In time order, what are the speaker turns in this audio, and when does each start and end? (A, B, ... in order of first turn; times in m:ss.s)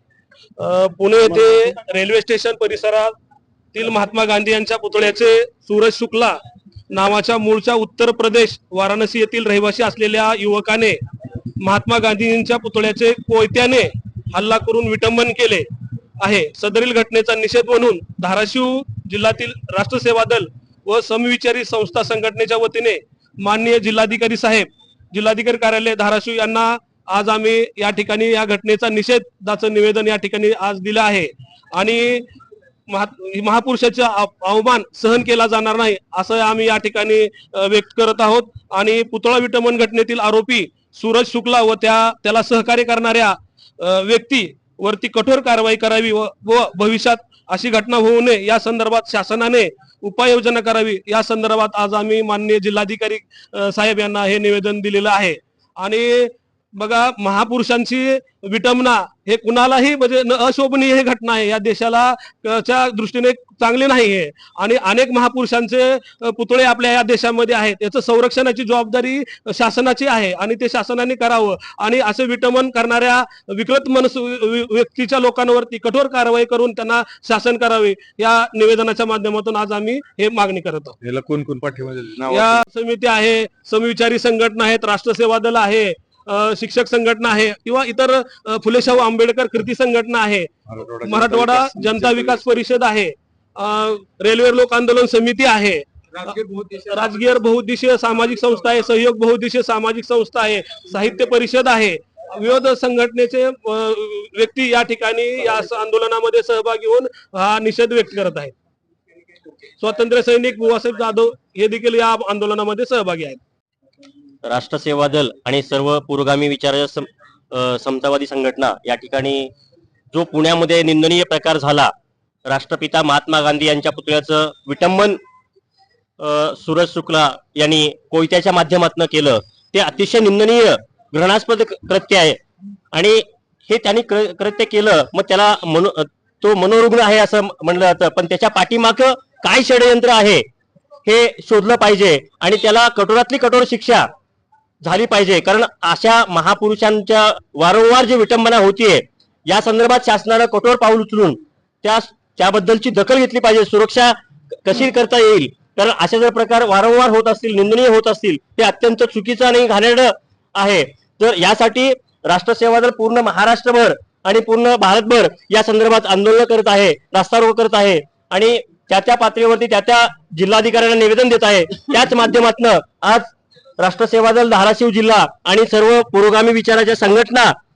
0:00.6-0:03.1 A
0:03.7-0:06.4 A
0:06.9-0:11.0 A
0:11.6-0:15.7 A
0:16.2-0:32.3 A
0:32.9-1:21.0 A
1:21.0-1:22.6 B
1:22.3-1:30.5 A
1:30.7-1:32.6 B
1:31.0-1:48.5 A
1:36.3-1:36.7 B
1:49.8-1:53.4 A
1:54.4-1:59.5 C
2:00.1-2:01.9 C
2:02.4-2:05.2 C
2:06.2-2:12.4 C
2:12.9-2:20.4 C
2:21.0-2:24.1 C
2:24.8-2:57.5 C